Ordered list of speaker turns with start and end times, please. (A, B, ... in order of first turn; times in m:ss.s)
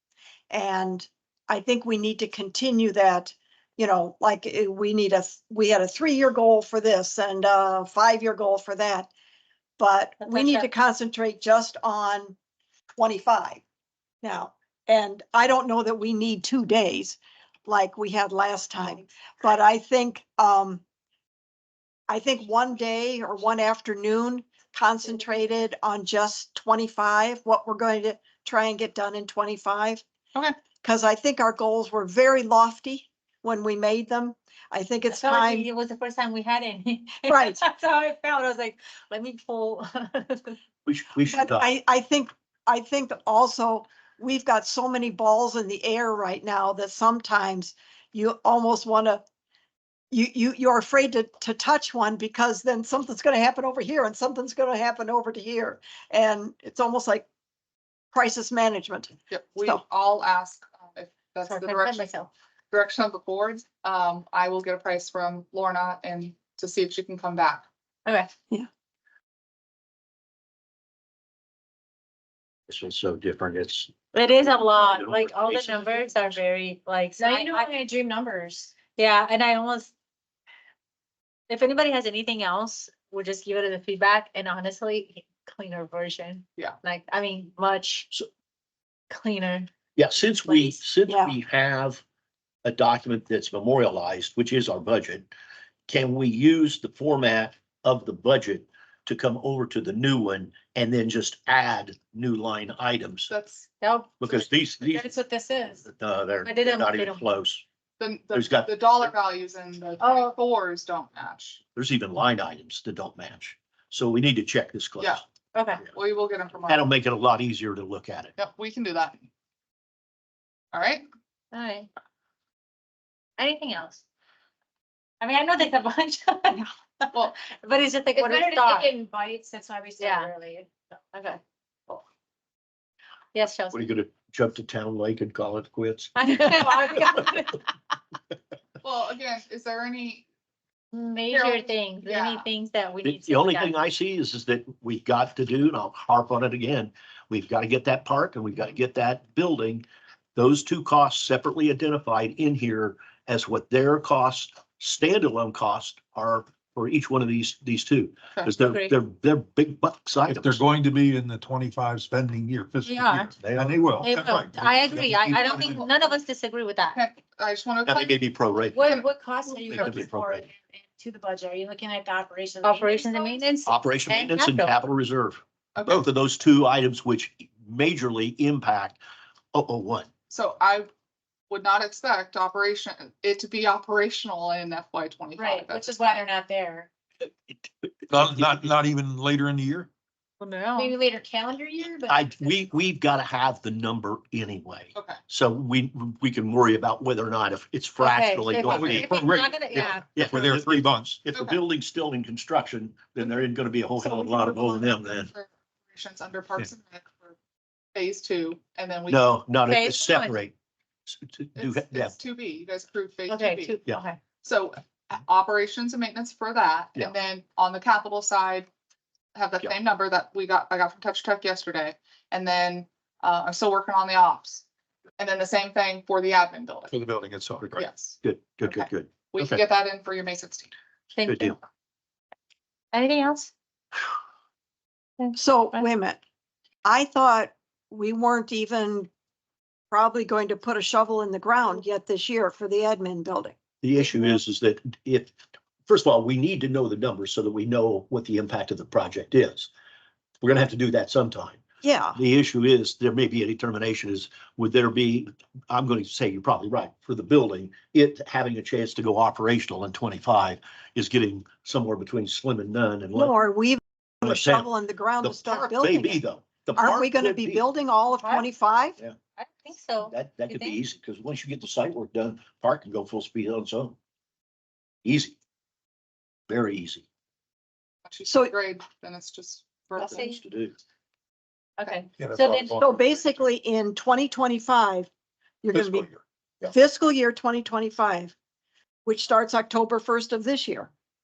0:00.5-0:09.1 A
0:09.8-0:12.4 A
0:10.2-0:10.7 B
0:13.0-0:13.6 A
0:14.2-0:20.8 A
0:22.1-0:30.0 A
0:30.8-0:35.6 A
0:35.1-0:40.6 B
0:37.3-0:37.6 A
0:40.8-0:41.7 C
0:41.3-0:49.2 A
0:50.1-0:57.2 A
0:58.1-0:59.8 A
0:59.3-1:02.1 D
1:01.4-1:02.3 B
1:02.7-1:07.6 D
1:08.0-1:08.3 B
1:12.7-1:13.9 C
1:14.1-1:17.8 B
1:14.5-1:16.4 C
1:17.2-1:18.8 E
1:18.9-1:19.9 B
1:21.5-1:28.1 B
1:29.1-1:29.7 B
1:29.9-1:32.0 C
1:30.4-1:30.8 B
1:31.1-1:31.3 A
1:32.6-1:35.3 C
1:35.9-1:43.3 C
1:43.3-1:43.7 D
1:43.8-1:44.5 B
1:44.2-1:45.2 C
1:44.9-1:45.8 E
1:45.8-1:47.6 C
1:46.4-1:47.2 B
1:48.0-1:51.6 D
1:48.3-1:49.1 C
1:50.0-1:50.3 B
1:51.8-1:55.2 C
1:55.5-1:55.8 B
1:55.8-1:56.9 D
1:56.7-1:58.3 C
1:58.4-1:59.2 D
2:00.7-2:01.0 D
2:01.5-2:01.9 B
2:03.4-2:04.0 B
2:05.2-2:08.9 B
2:08.1-2:10.7 E
2:10.0-2:10.5 B
2:11.1-2:12.0 B
2:13.3-2:13.9 B
2:13.7-2:16.1 C
2:16.2-2:17.6 B
2:18.8-2:20.2 D
2:20.9-2:23.8 B
2:21.3-2:22.5 D
2:23.0-2:40.6 C
2:38.6-2:38.9 B
2:40.3-2:45.9 F
2:42.8-2:43.3 B
2:43.4-2:44.0 C
2:44.0-2:47.0 B
2:46.9-2:48.2 D
2:47.9-2:49.0 C
2:48.8-2:49.1 D
2:48.8-2:53.7 E
2:49.7-2:50.5 C
2:52.6-2:54.7 B
2:53.6-2:59.0 C
2:55.8-2:56.0 D
2:59.5-3:00.1 C
3:00.3-3:00.9 D
3:01.5-3:06.2 D
3:05.4-3:06.9 E
3:07.8-3:08.6 C
3:08.1-3:09.9 F
3:10.4-3:11.0 B
3:10.8-3:12.2 E
3:12.1-3:19.1 C
3:18.0-3:20.1 B
3:18.7-3:21.2 F
3:19.7-3:25.3 C
3:24.3-3:27.4 D
3:27.9-3:29.4 D
3:29.1-3:30.5 C
3:29.6-3:30.3 B
3:31.0-3:32.2 C
3:31.6-3:33.8 D
3:33.3-3:34.2 B
3:34.4-3:38.7 D
3:39.3-3:44.6 D
3:45.2-3:46.9 D
3:46.9-3:47.7 F
3:47.6-3:49.6 C
3:47.8-3:50.7 D
3:51.1-3:51.6 B
3:51.2-3:51.6 C
3:52.9-3:53.5 B
3:55.2-3:55.8 B
3:55.4-3:56.2 A
3:56.8-3:59.1 A
3:59.9-4:03.5 A
4:03.8-4:05.3 C
4:05.9-4:09.7 C
4:10.4-4:11.6 C
4:11.8-4:12.2 A
4:12.1-4:23.4 C
4:23.1-4:26.2 A
4:24.2-4:24.7 C
4:25.2-4:27.6 C
4:26.8-4:29.0 A
4:29.4-4:30.8 B
4:30.1-4:34.0 C
4:35.0-4:35.4 C
4:36.5-4:37.0 C
4:38.0-4:40.2 D
4:38.2-4:38.5 A
4:40.0-4:40.4 B
4:40.0-4:40.8 C
4:41.8-4:42.8 B
4:42.2-4:43.2 F
4:42.8-4:45.1 A
4:45.6-4:46.1 A
4:45.7-4:46.7 F
4:46.7-4:48.3 A
4:49.0-4:50.9 A